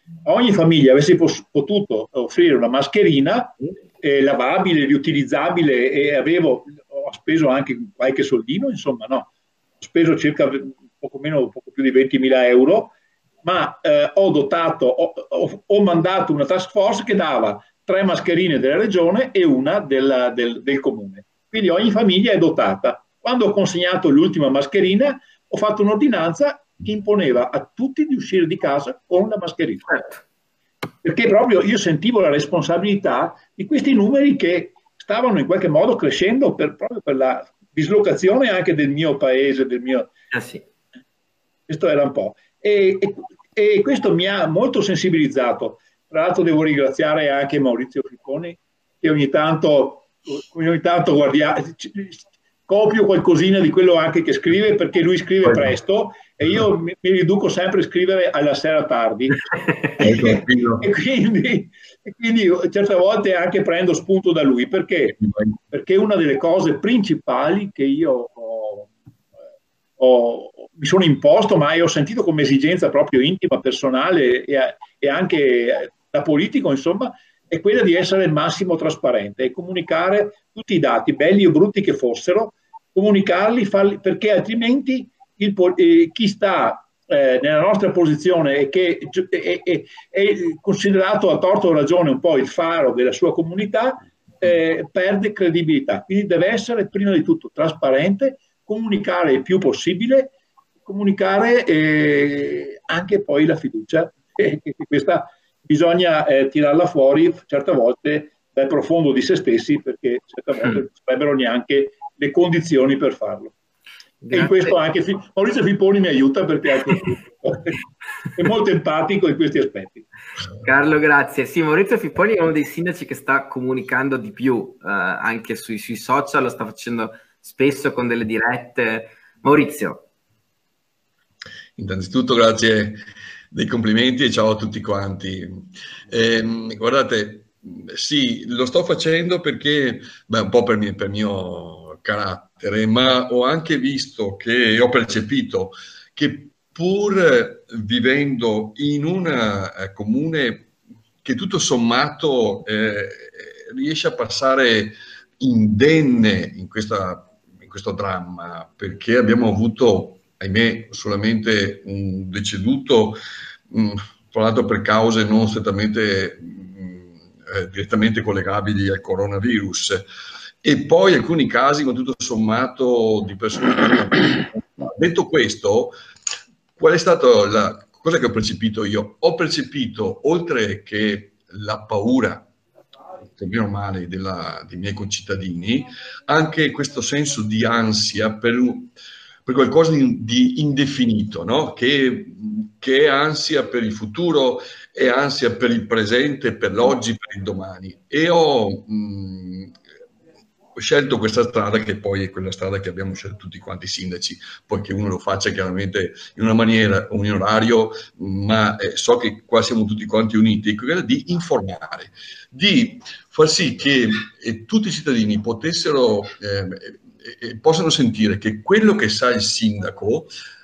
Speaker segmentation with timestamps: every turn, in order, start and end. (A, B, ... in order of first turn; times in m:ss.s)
0:00.2-0:09.3 A
0:09.8-0:29.9 A
0:29.9-0:30.2 B
0:31.0-0:40.1 A
0:40.3-0:40.6 B
0:41.7-0:59.4 A
0:55.5-0:55.7 C
1:00.0-1:05.2 A
1:00.0-1:00.9 C
1:05.2-1:05.6 C
1:05.7-1:08.9 A
1:10.0-1:40.3 A
1:40.9-1:53.5 A
1:54.2-1:54.8 B
1:54.3-1:57.8 A
1:58.4-2:00.1 A
2:00.6-2:10.0 B
2:11.8-2:30.7 C
2:31.2-2:50.1 C
2:50.6-2:56.0 C
2:56.8-3:02.5 C
3:03.3-3:08.9 C
3:09.5-3:19.8 C
3:20.8-3:40.3 C